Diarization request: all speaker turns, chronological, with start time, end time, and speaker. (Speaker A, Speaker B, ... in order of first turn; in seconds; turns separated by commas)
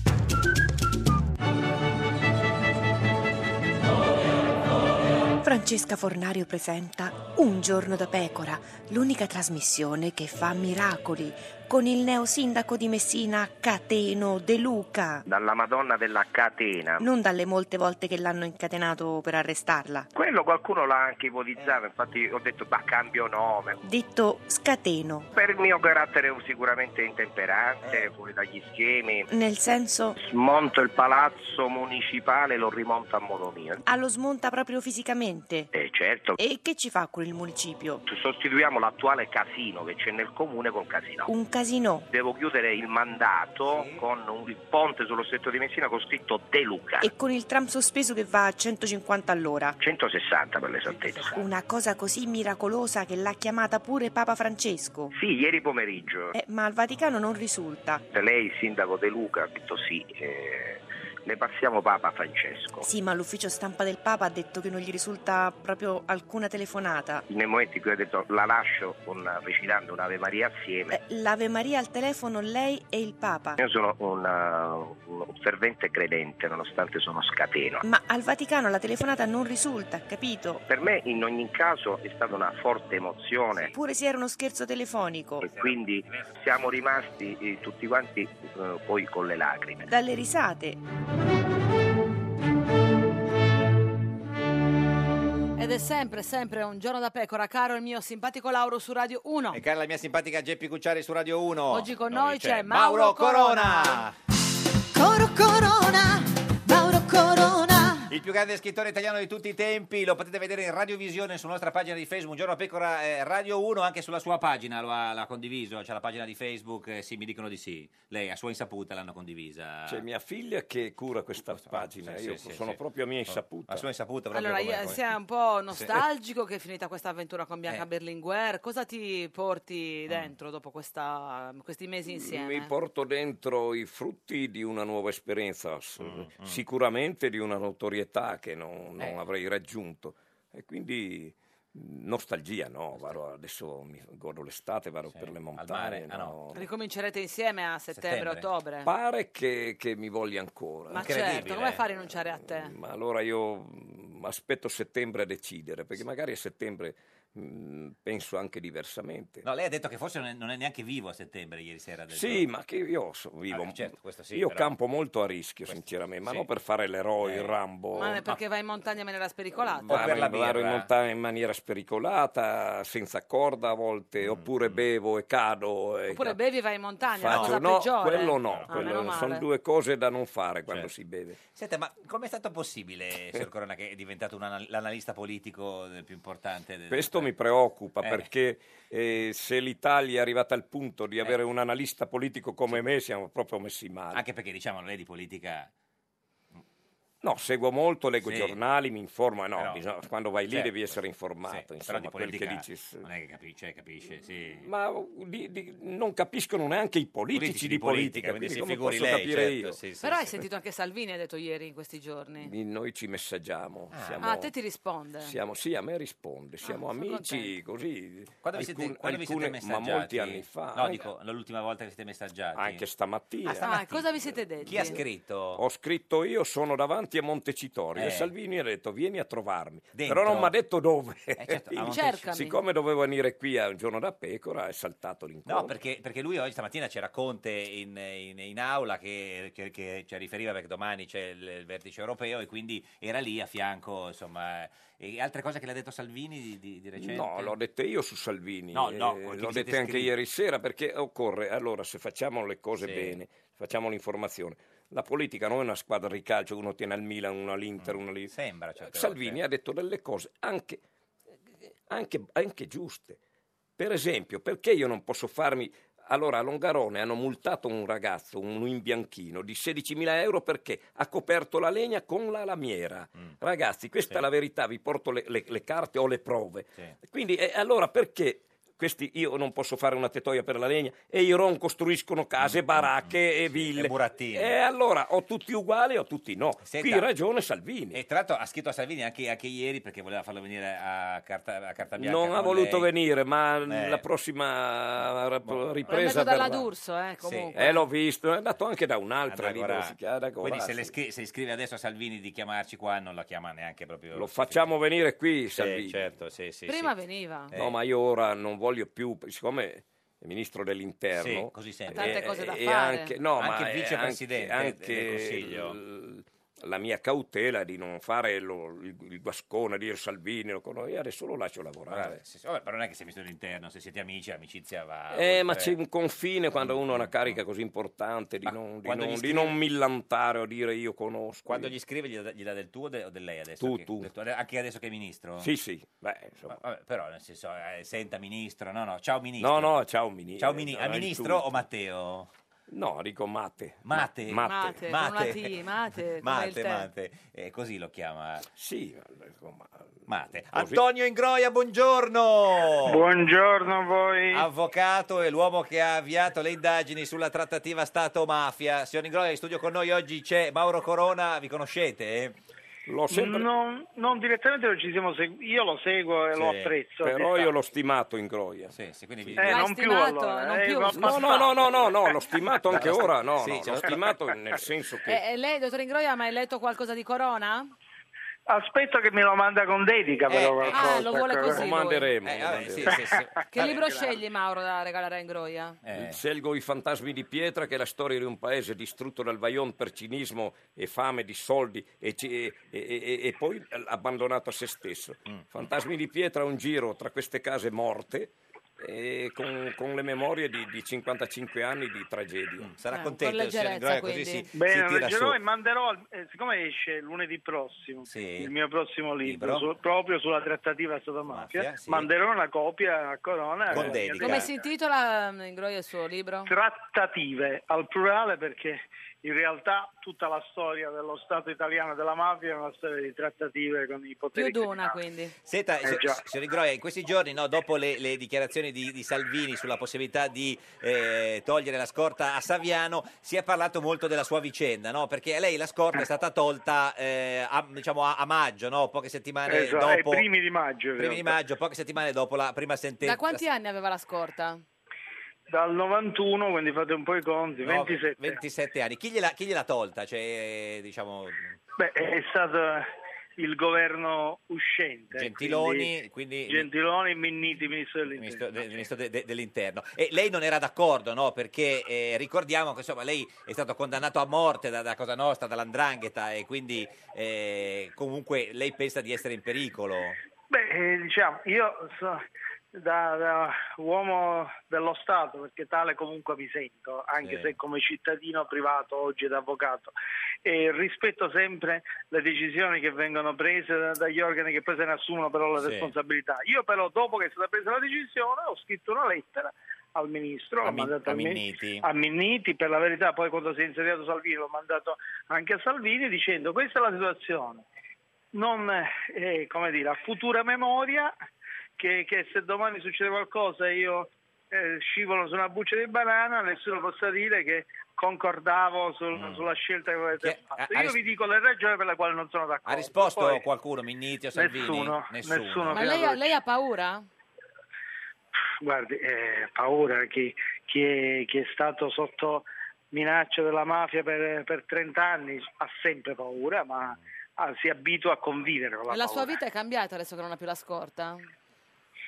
Speaker A: 5.4-15.3, Speaker B: 15.3-17.0, Speaker A: 17.0-20.1, Speaker B: 20.1-23.8, Speaker C: 21.6-21.8, Speaker A: 23.8-25.3, Speaker B: 25.3-29.3, Speaker C: 27.8-28.1, Speaker A: 29.3-30.1, Speaker B: 30.1-33.8, Speaker A: 33.8-35.7, Speaker B: 35.7-36.4, Speaker A: 36.4-38.0, Speaker B: 38.0-41.3, Speaker A: 41.3-42.1, Speaker B: 42.1-47.1, Speaker C: 43.6-44.0, Speaker A: 47.0-49.8, Speaker B: 49.8-51.4, Speaker C: 50.8-51.5, Speaker A: 51.3-55.1, Speaker B: 55.1-56.3, Speaker A: 56.3-58.0, Speaker B: 58.1-62.9, Speaker A: 62.8-67.2, Speaker B: 67.3-71.0, Speaker A: 70.9-73.6, Speaker B: 73.6-77.8, Speaker A: 77.8-80.6, Speaker B: 80.7-83.7, Speaker A: 83.7-85.5, Speaker B: 85.4-89.8, Speaker C: 85.4-86.3, Speaker A: 89.8-90.8, Speaker D: 95.6-99.6, Speaker C: 99.5-104.2, Speaker D: 101.7-104.0, Speaker E: 104.9-108.1, Speaker C: 108.1-120.0, Speaker F: 119.9-123.8, Speaker C: 121.4-125.0, Speaker D: 124.3-132.7, Speaker F: 132.1-146.7, Speaker C: 136.0-136.6, Speaker C: 142.9-143.2, Speaker C: 145.1-146.4, Speaker D: 146.5-148.9, Speaker C: 147.9-148.4, Speaker F: 148.8-151.4, Speaker D: 150.9-152.7, Speaker C: 150.9-151.8, Speaker F: 152.1-159.4, Speaker C: 159.4-162.5, Speaker F: 162.1-168.2, Speaker C: 163.5-164.7, Speaker C: 165.7-166.5, Speaker C: 167.2-167.6, Speaker D: 167.9-170.1, Speaker F: 169.7-176.4, Speaker C: 169.8-170.9, Speaker C: 174.2-174.9, Speaker D: 176.1-179.4, Speaker F: 177.1-181.4, Speaker C: 177.2-177.6, Speaker C: 178.4-179.0, Speaker C: 181.4-187.3, Speaker F: 186.9-194.2, Speaker C: 188.0-188.3, Speaker C: 194.1-195.7, Speaker F: 197.2-203.1, Speaker C: 198.2-198.6, Speaker C: 199.6-199.8, Speaker C: 200.5-204.7, Speaker F: 204.6-209.8, Speaker C: 207.3-210.3, Speaker D: 210.0-212.5, Speaker F: 212.4-214.5, Speaker C: 213.9-214.2, Speaker D: 214.2-215.3, Speaker F: 215.2-221.1, Speaker D: 216.6-217.5, Speaker C: 218.4-222.8, Speaker F: 222.5-223.8, Speaker C: 223.4-225.6, Speaker D: 223.6-225.0, Speaker F: 224.7-225.0, Speaker F: 225.5-235.7, Speaker C: 227.9-228.3, Speaker C: 229.9-230.5, Speaker C: 231.4-232.3, Speaker D: 231.8-232.6, Speaker C: 235.4-247.5, Speaker F: 247.0-260.8, Speaker C: 248.7-250.1, Speaker C: 252.8-253.2, Speaker C: 257.8-259.4, Speaker F: 261.6-263.2, Speaker F: 263.8-288.0, Speaker C: 282.4-284.6, Speaker C: 286.6-287.1, Speaker C: 287.9-292.9, Speaker F: 291.9-296.7, Speaker C: 293.6-294.0, Speaker C: 295.4-296.1, Speaker D: 295.9-297.8, Speaker C: 297.2-297.5, Speaker F: 297.5-300.9, Speaker C: 299.2-304.7, Speaker F: 304.1-306.0, Speaker C: 305.5-306.9, Speaker D: 306.7-307.5, Speaker F: 307.5-322.2, Speaker C: 311.1-312.2, Speaker D: 311.9-313.1, Speaker C: 313.4-315.8, Speaker C: 321.9-325.8, Speaker F: 325.1-331.7, Speaker C: 326.6-327.4, Speaker C: 328.4-329.6, Speaker C: 331.4-335.5, Speaker F: 333.6-334.1, Speaker F: 335.4-336.6, Speaker C: 336.4-339.8, Speaker F: 339.4-341.6, Speaker C: 340.4-342.3, Speaker F: 342.7-344.9, Speaker C: 343.8-345.5, Speaker D: 344.4-346.9, Speaker C: 346.2-348.5, Speaker F: 348.5-350.8, Speaker C: 350.1-353.1, Speaker G: 352.8-354.5, Speaker C: 354.3-362.3, Speaker F: 362.9-363.5, Speaker G: 363.1-367.5, Speaker C: 366.3-366.7, Speaker F: 367.0-369.6, Speaker C: 368.7-369.6, Speaker G: 369.4-371.4, Speaker D: 369.4-371.6, Speaker F: 370.9-375.2, Speaker C: 372.7-374.1, Speaker D: 375.1-377.7, Speaker G: 378.5-381.5, Speaker C: 380.3-381.2, Speaker D: 380.7-382.1, Speaker F: 380.8-383.1, Speaker C: 382.2-383.8, Speaker G: 383.1-384.1, Speaker D: 383.5-385.8, Speaker C: 385.9-386.2, Speaker F: 385.9-402.7, Speaker C: 402.6-405.4, Speaker D: 402.9-404.5, Speaker G: 404.5-414.6, Speaker C: 408.1-408.5, Speaker C: 409.2-409.7, Speaker C: 411.3-412.1, Speaker C: 413.7-414.5, Speaker D: 414.2-416.5, Speaker G: 416.4-425.0, Speaker D: 424.3-425.3, Speaker C: 425.4-440.2, Speaker G: 425.8-426.2, Speaker G: 439.5-441.4, Speaker C: 441.0-443.4, Speaker D: 443.0-444.6, Speaker G: 445.5-448.4, Speaker C: 447.6-451.6, Speaker G: 451.8-455.9, Speaker C: 455.1-456.7, Speaker G: 456.5-458.8, Speaker C: 458.2-470.2, Speaker G: 470.5-479.9, Speaker C: 477.2-477.5, Speaker G: 480.4-497.6, Speaker C: 485.6-485.9, Speaker C: 490.6-491.8, Speaker G: 498.3-501.1, Speaker G: 501.8-513.4, Speaker C: 509.1-509.6, Speaker C: 510.2-511.0, Speaker C: 512.6-515.9, Speaker G: 514.3-516.2, Speaker D: 515.7-517.0, Speaker G: 518.6-529.3, Speaker D: 528.9-531.3